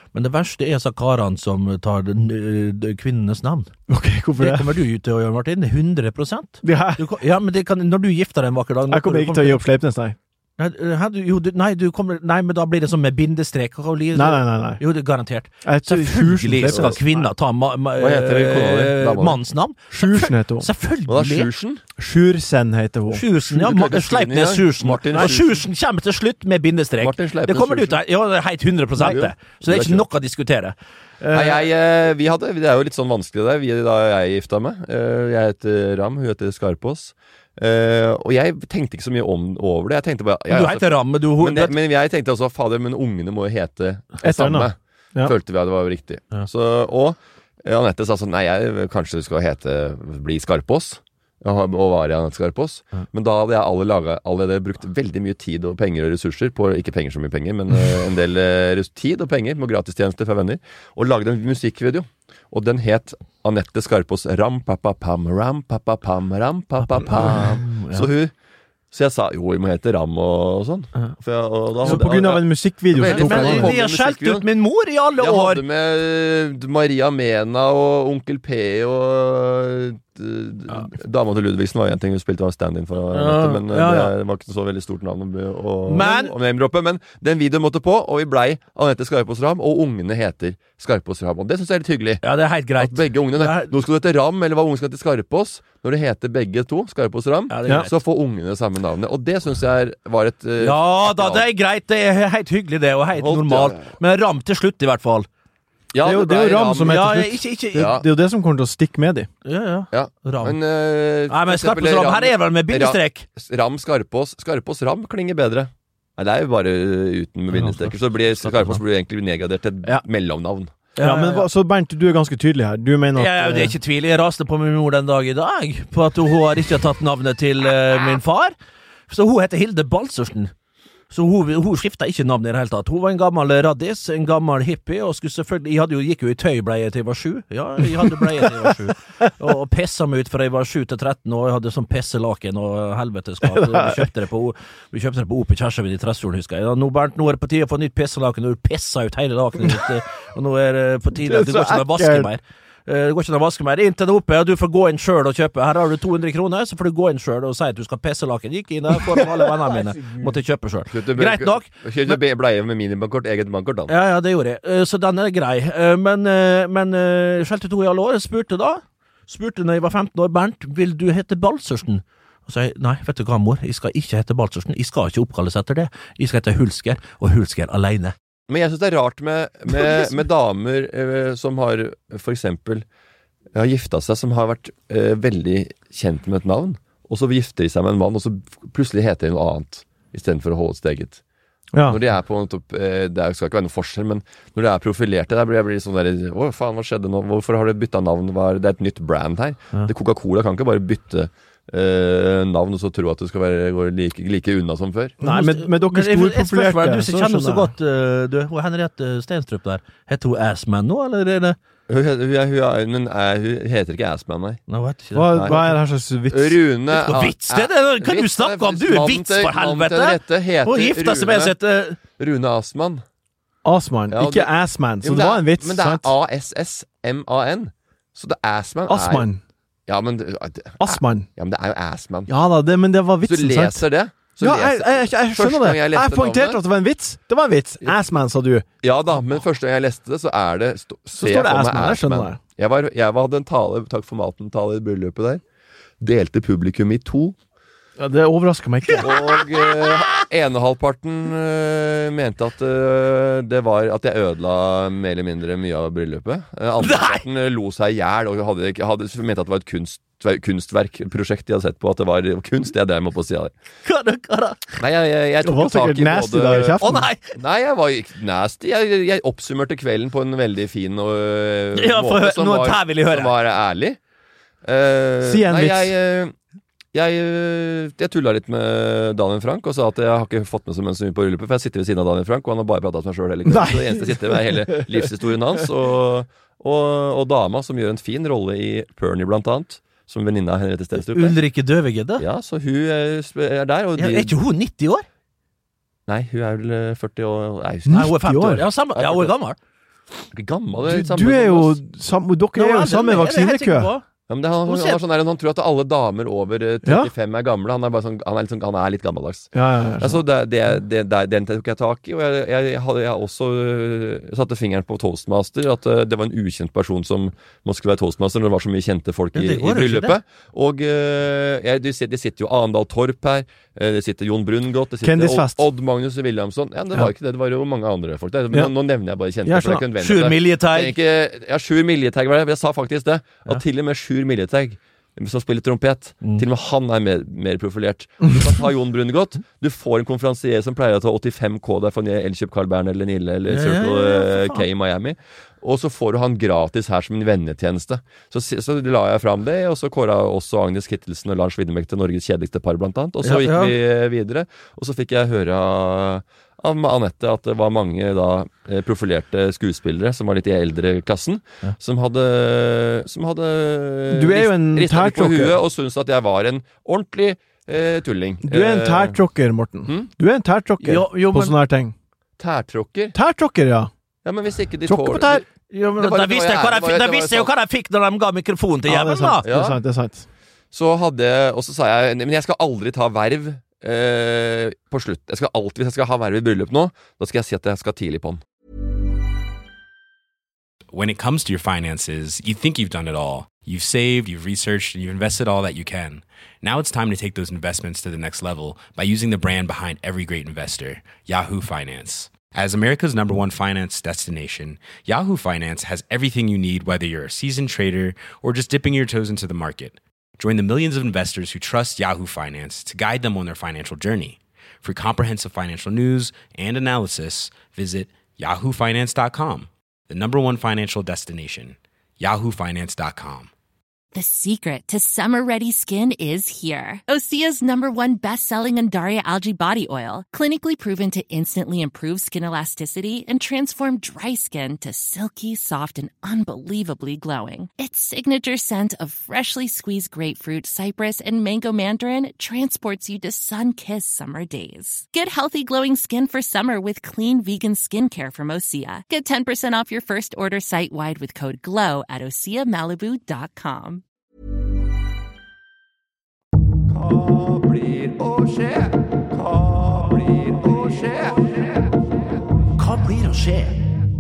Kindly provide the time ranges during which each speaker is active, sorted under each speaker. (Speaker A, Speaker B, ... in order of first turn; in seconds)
Speaker A: 0.1-3.7, 4.4-9.6, 10.6-21.5, 23.1-31.6, 40.5-41.8, 66.8-68.1, 73.0-75.6, 83.1-84.1, 85.9-86.3, 92.2-93.7, 97.5-97.9, 100.6-105.3, 106.8-107.9, 109.5-110.6, 111.3-113.3, 117.5-118.8, 121.0-121.5, 123.2-128.5, 129.1-130.5, 131.1-162.2, 163.9-178.1, 205.2-211.6, 214.7-215.7, 216.9-222.0, 248.9-250.2, 256.8-257.2, 263.9-264.8, 266.8-267.4, 271.8-273.3, 291.0-292.2, 294.0-295.1, 297.9-299.6, 302.6-304.0, 304.7-305.0, 319.3-320.2, 329.9-330.9, 343.5-344.7, 353.2-353.8, 370.8-371.6, 375.7-379.4, 462.8-463.8
Speaker B: 3.9-4.8, 6.6-7.0, 8.9-10.2, 14.2-14.8, 15.6-17.3, 19.9-20.7, 22.0-23.2, 44.2-45.3, 71.8-73.7, 106.0-109.3, 121.0-123.8, 138.0-138.4, 143.5-144.0, 151.2-152.3, 191.7-192.0, 205.2-207.7, 215.1-216.6, 223.7-226.1, 228.9-229.4, 230.8-231.3, 232.3-233.8, 234.4-238.7, 241.2-242.4, 248.0-249.2, 265.4-267.1, 275.2-275.9, 283.5-285.1, 297.9-298.6, 300.8-303.9, 309.5-310.2, 325.0-325.6, 329.5-329.9, 364.1-365.6, 368.4-371.9, 373.1-373.9, 374.9-375.4, 378.9-380.3
Speaker C: 16.7-17.0, 18.0-19.4, 21.1-21.8, 23.5-25.6, 27.0-28.0, 29.1-30.1, 31.3-68.3, 68.9-74.5, 75.2-92.2, 92.8-101.5, 103.2-103.9, 105.9-107.2, 107.8-108.1, 109.9-120.7, 160.9-163.9, 178.5-182.8, 183.5-191.2, 191.9-205.2, 211.9-214.6, 215.3-215.6, 216.3-221.6, 222.2-223.0, 224.1-229.3, 229.9-232.3, 233.2-236.6, 238.8-245.4, 246.0-247.4, 249.0-263.5, 264.8-274.0, 274.6-276.3, 276.9-291.4, 292.2-294.3, 296.1-299.3, 300.3-301.8, 304.3-369.2, 372.4-373.2, 374.2-377.5, 379.4-379.8, 380.7-388.4, 456.9-461.9
Speaker D: 390.9-423.5
Speaker E: 424.1-454.0